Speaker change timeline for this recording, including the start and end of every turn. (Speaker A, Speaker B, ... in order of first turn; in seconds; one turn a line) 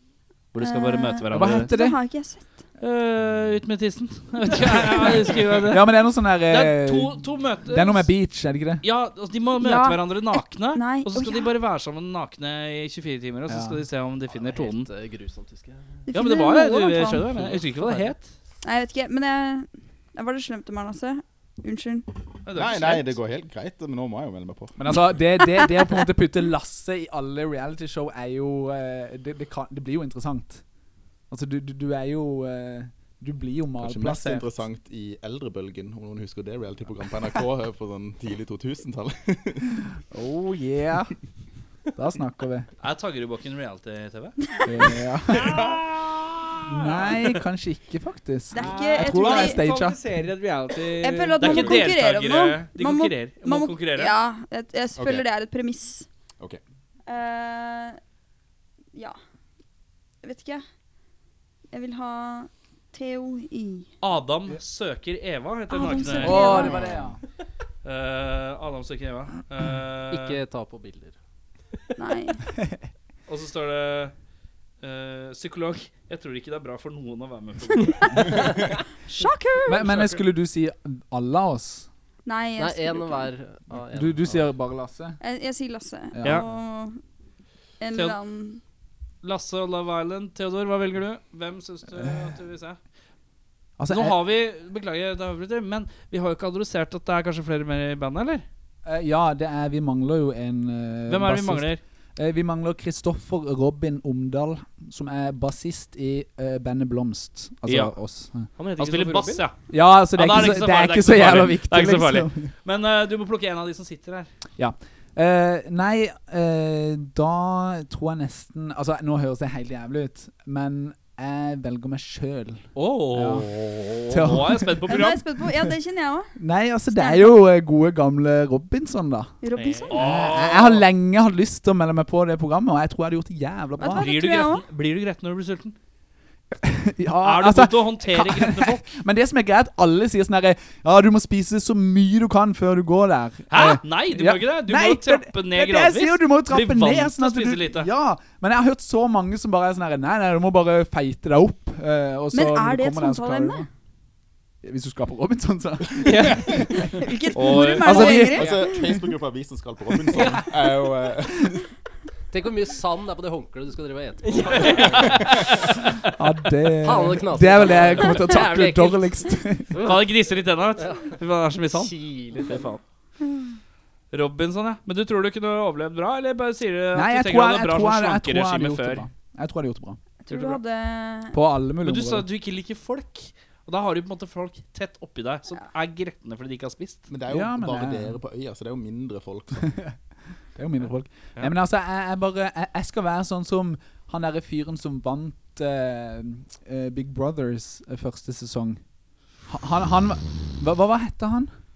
Speaker A: 0.5-1.7
Speaker B: 0.6-2.5
Speaker C: 1.3-2.0
Speaker A: 2.8-8.1
Speaker C: 5.6-8.8
Speaker A: 8.8-14.9
Speaker B: 9.6-11.5
Speaker C: 13.5-13.8
Speaker D: 14.3-16.1
Speaker B: 16.1-17.3
Speaker A: 16.1-18.3
Speaker B: 18.6-22.1
Speaker A: 22.4-23.1
Speaker E: 22.5-24.8
Speaker C: 24.8-30.6
Speaker C: 31.3-34.5
Speaker E: 33.8-39.6
Speaker C: 40.1-41.1
Speaker C: 42.0-42.7
Speaker A: 42.8-44.4
Speaker C: 44.6-45.7
Speaker A: 45.3-47.4
Speaker E: 45.4-45.9
Speaker C: 46.6-50.0
Speaker B: 48.5-49.6
Speaker F: 48.5-51.9
Speaker B: 51.0-56.1
Speaker A: 51.4-54.1
Speaker E: 55.0-55.2
Speaker B: 57.1-58.0
Speaker B: 60.2-60.6
Speaker B: 61.7-63.9
Speaker A: 64.0-66.8
Speaker B: 65.7-66.9
Speaker C: 66.2-67.2
Speaker A: 67.8-70.4
Speaker D: 70.1-71.1
Speaker B: 72.0-72.4
Speaker A: 73.3-74.1
Speaker A: 74.8-78.5
Speaker B: 78.1-78.5
Speaker B: 79.1-79.8
Speaker C: 79.7-81.9
Speaker A: 79.7-80.2
Speaker B: 82.2-83.3
Speaker D: 82.6-84.5
Speaker C: 83.9-85.2
Speaker B: 85.2-87.0
Speaker C: 86.1-86.5
Speaker B: 87.8-88.6
Speaker A: 89.2-92.8
Speaker C: 92.0-92.4
Speaker C: 93.8-94.2
Speaker A: 93.9-98.4
Speaker C: 98.8-108.5
Speaker A: 101.1-101.8
Speaker A: 107.7-107.9
Speaker F: 108.6-109.4
Speaker A: 108.8-109.6
Speaker C: 109.7-112.5
Speaker A: 110.1-114.3
Speaker C: 114.6-125.7
Speaker A: 122.7-125.2
Speaker B: 124.9-126.3
Speaker C: 126.3-129.3
Speaker B: 126.9-127.4
Speaker B: 129.4-130.0
Speaker F: 129.6-129.9
Speaker A: 129.9-130.8
Speaker C: 129.9-134.2
Speaker B: 133.8-134.6
Speaker A: 133.9-135.7
Speaker C: 136.5-153.7
Speaker A: 137.2-138.8
Speaker A: 143.5-147.9
Speaker B: 152.3-153.6
Speaker C: 154.6-156.9
Speaker F: 156.0-156.5
Speaker B: 156.9-158.9
Speaker A: 157.3-158.3
Speaker C: 157.6-158.5
Speaker E: 158.3-161.6
Speaker C: 160.1-160.4
Speaker D: 162.3-165.3
Speaker F: 164.2-165.2
Speaker A: 164.5-165.8
Speaker C: 166.2-169.8
Speaker D: 166.8-170.1
Speaker A: 169.8-172.8
Speaker D: 170.8-171.2
Speaker D: 171.7-172.7
Speaker A: 174.1-179.1
Speaker C: 176.9-180.0
Speaker B: 180.2-181.3
Speaker A: 180.3-180.6
Speaker C: 181.3-182.2
Speaker A: 181.8-187.1
Speaker E: 187.1-189.7
Speaker C: 187.3-188.2
Speaker C: 189.6-189.9
Speaker C: 190.5-198.8
Speaker C: 199.5-201.5